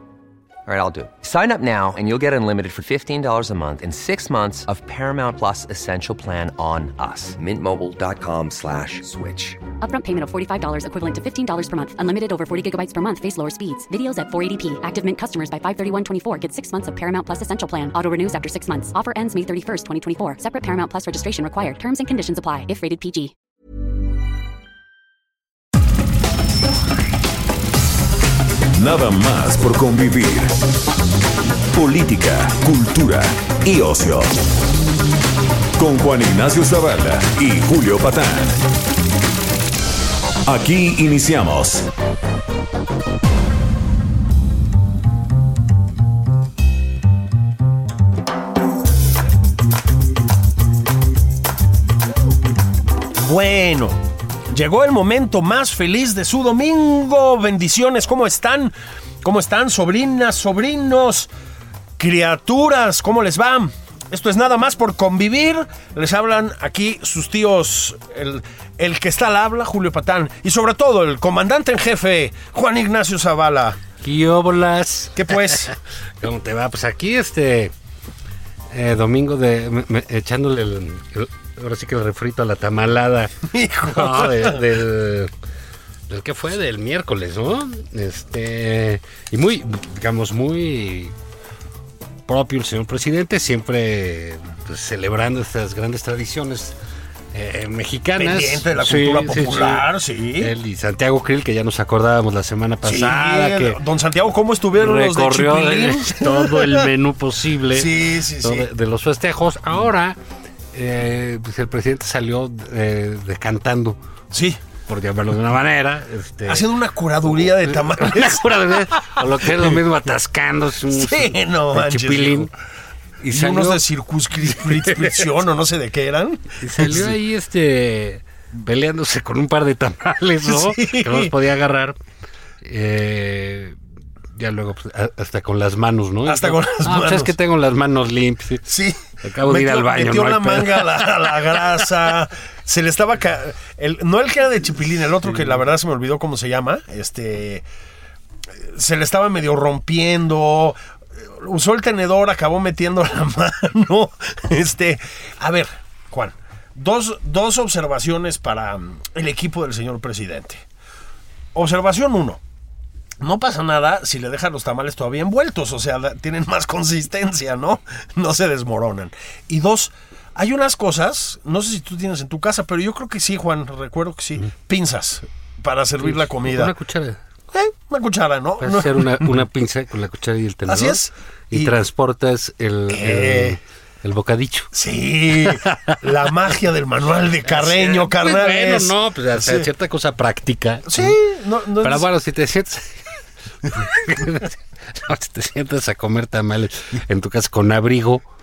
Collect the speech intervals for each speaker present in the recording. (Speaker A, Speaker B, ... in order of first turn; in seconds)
Speaker A: 0.7-9.6
Speaker B: 9.8-23.3
Speaker C: 28.7-30.6, 31.7-34.4, 35.8-38.6, 40.5-41.9
Speaker D: 53.2-61.3, 62.0-73.8, 75.2-75.7, 83.5-84.6, 98.2-100.5, 102.8-106.9, 107.7-108.7, 114.3-114.6, 116.5-119.8, 120.9-122.5, 123.3-127.1, 130.4-131.3, 136.2-137.3, 138.7-147.6, 148.6-160.6, 161.5-162.4, 163.2-176.7, 177.5-179.4, 180.7-181.7, 182.9-183.6, 184.7-189.7, 190.8-192.1
Speaker E: 74.0-77.7, 78.7-83.3, 83.8-85.3, 86.1-91.1, 92.3-96.8, 97.3-99.8, 100.4-103.8, 104.8-110.2, 110.7-114.0, 114.8-116.7, 117.7-122.5, 123.2-123.8, 124.6-125.2, 126.6-132.0, 132.6-133.8, 134.3-138.7, 139.2-141.3, 176.0-177.2, 178.6-181.0, 181.5-184.7, 185.4-186.0, 187.5-191.2, 191.8-193.0, 193.6-198.2